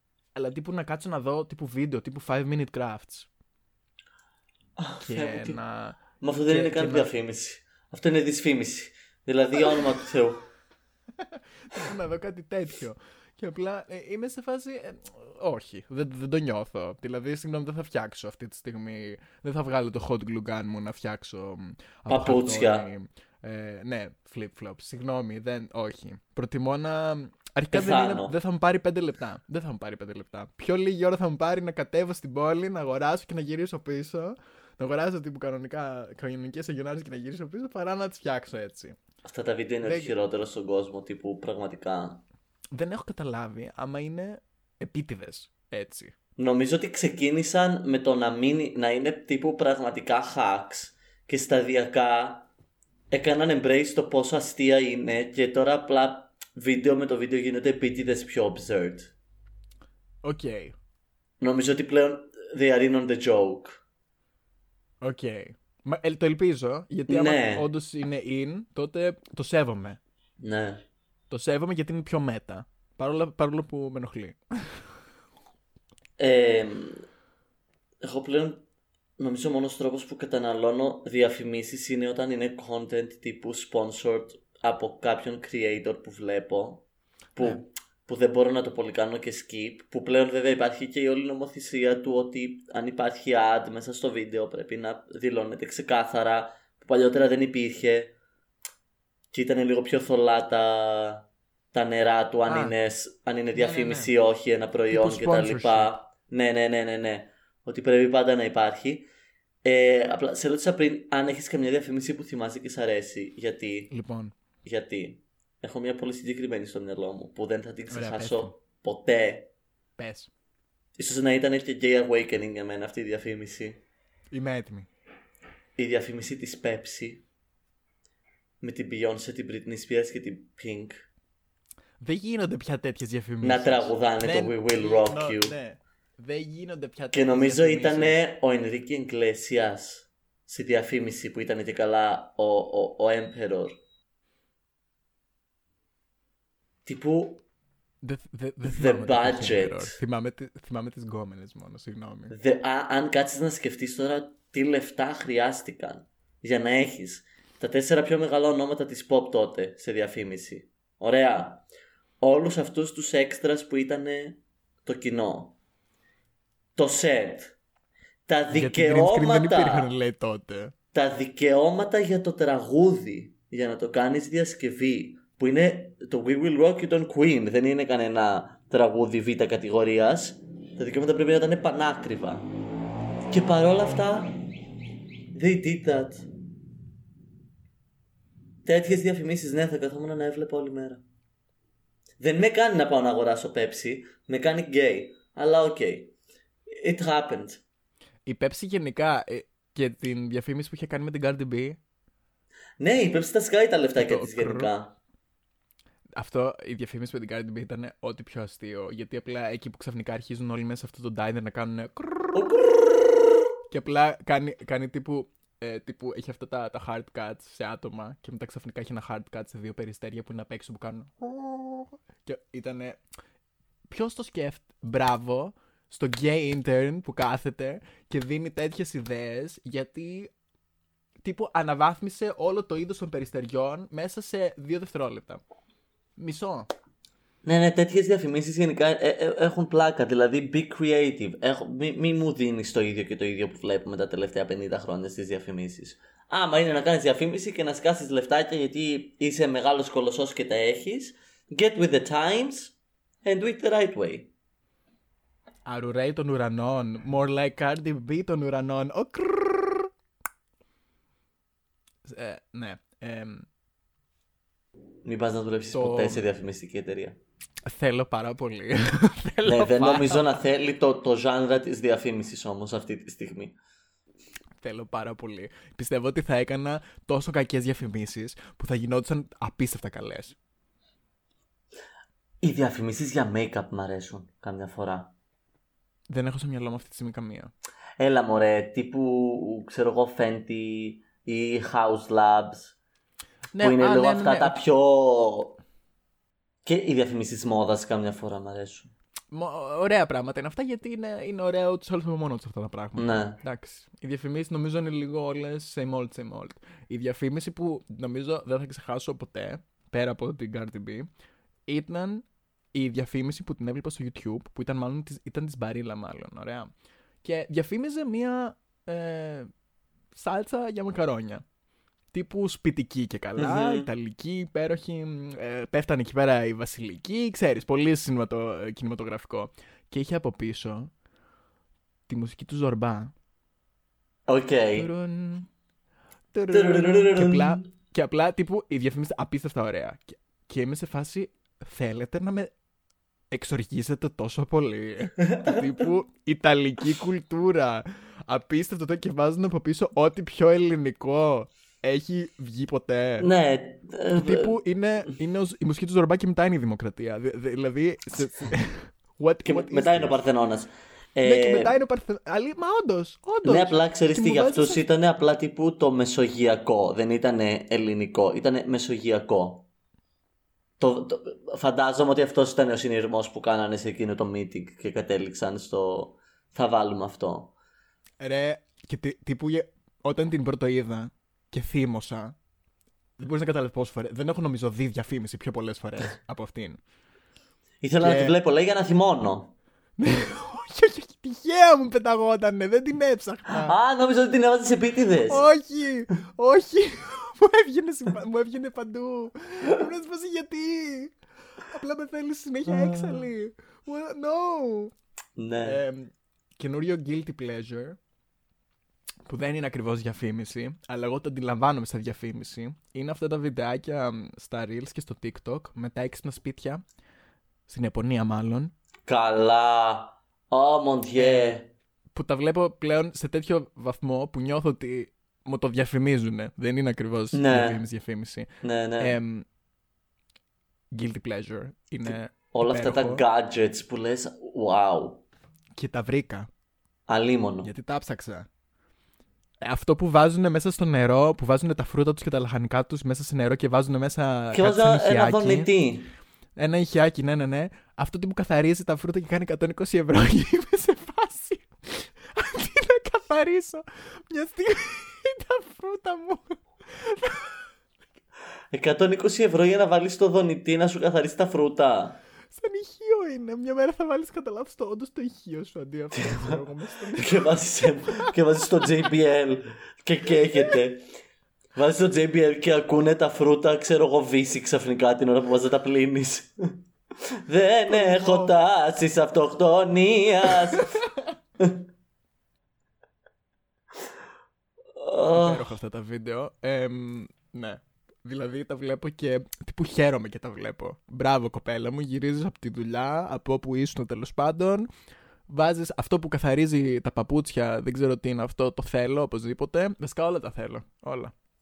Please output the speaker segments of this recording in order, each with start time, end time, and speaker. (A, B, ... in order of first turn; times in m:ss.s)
0:00.3-0:03.3 A
0:04.8-0:05.6 B
0:05.0-0:07.1 A
0:06.2-0:10.4 B
0:11.2-0:39.0 A
0:22.1-0:22.9 B
0:27.7-0:28.3 B
0:39.2-0:42.2 B
0:39.8-0:40.1 A
0:42.7-0:46.1 A
0:46.4-0:52.5 B
0:53.1-0:59.1 B
1:00.2-1:00.7 A
1:01.4-1:03.8 B
1:05.0-1:10.0 A
1:07.1-1:07.7 B
1:10.4-1:10.8 B
1:11.3-1:14.8 A
1:16.2-1:17.0 B
1:18.0-1:18.6 B
1:19.2-1:26.8 B
1:27.4-1:38.1 B
1:39.3-1:49.1 B
1:42.5-1:42.7 A
1:43.5-1:44.1 A
1:44.9-1:46.0 A
1:49.6-1:53.9 B
1:53.9-1:54.3 A
1:54.6-1:59.5 B
1:57.9-1:58.5 A
2:00.0-2:00.3 A
2:01.0-2:03.8 B
2:04.3-2:04.9 A
2:05.8-2:07.2 B
2:08.6-2:11.0 B
2:12.0-2:18.2 A
2:13.4-2:15.5 B
2:17.1-2:23.8 B
2:26.8-2:27.4 B
2:28.0-2:32.3 A
2:28.6-2:30.0 B
2:32.3-2:41.6 B
2:42.2-2:45.6 B
2:46.8-2:47.5 B
2:48.3-2:49.9 B
2:48.5-2:50.7 A
2:50.9-3:02.5 B
3:03.3-3:04.4 B
3:05.3-3:06.3 B
3:08.6-3:11.0 B
3:12.2-3:16.1 B
3:16.7-3:17.6 B
3:18.2-3:21.8 A
3:22.8-3:24.9 B
3:24.0-3:24.7 A
3:26.2-3:32.4 A
3:32.3-3:33.3 B
3:33.7-3:43.0 A
3:43.9-3:50.3 A
3:51.2-3:55.4 A
3:56.2-3:56.7 A
3:57.4-4:14.3 B
4:15.6-4:19.9 A
4:22.0-4:23.5 A
4:25.0-4:27.2 B
4:25.7-4:26.2 A
4:27.6-4:30.3 A
4:29.4-4:33.6 B
4:34.6-4:40.4 A
4:42.4-4:45.1 B
4:46.1-4:47.5 A
4:48.0-4:52.8 B
4:53.5-4:54.6 A
4:53.6-4:55.6 B
4:56.6-4:58.9 B
4:59.3-5:11.1 A
5:03.0-5:03.4 B
5:11.7-5:16.7 A
5:17.2-5:19.5 A
5:20.1-5:21.4 A
5:22.1-5:30.9 A
5:23.4-5:23.9 B
5:32.1-5:33.1 A
5:34.3-5:34.9 B
5:34.7-5:35.5 A
5:36.3-5:42.5 A
5:36.5-5:37.7 B
5:43.3-5:53.3 A
5:45.2-5:45.6 B
5:53.2-5:54.6 B
5:54.1-6:00.2 A
5:59.4-6:01.7 B
6:01.2-6:04.8 A
6:03.4-6:09.6 B
6:10.8-6:17.5 B
6:18.2-6:22.4 A
6:23.2-6:26.8 A
6:27.8-6:29.5 B
6:28.0-6:28.3 A
6:30.0-6:33.7 A
6:33.6-6:35.4 B
6:35.3-6:44.9 A
6:42.7-6:43.2 B
6:45.4-6:45.8 B
6:45.6-6:48.0 A
6:49.2-6:56.8 A
6:57.7-6:58.7 A
6:59.1-7:01.7 B
7:01.2-7:01.6 A
7:02.1-7:08.5 A
7:07.3-7:07.8 B
7:08.6-7:09.2 B
7:09.0-7:09.4 A
7:10.9-7:13.2 A
7:12.0-7:15.2 B
7:15.7-7:16.5 A
7:17.1-7:17.7 B
7:17.6-7:18.5 A
7:19.6-7:25.7 A
7:24.5-7:26.1 B
7:26.6-7:37.6 A
7:38.7-7:42.2 B
7:42.5-7:48.8 A
7:46.1-7:46.6 B
7:47.1-7:51.0 B
7:51.7-7:56.8 B
7:57.5-8:01.0 B
7:57.9-7:58.5 A
8:05.0-8:05.7 B
8:05.3-8:14.9 A
8:15.5-8:21.3 A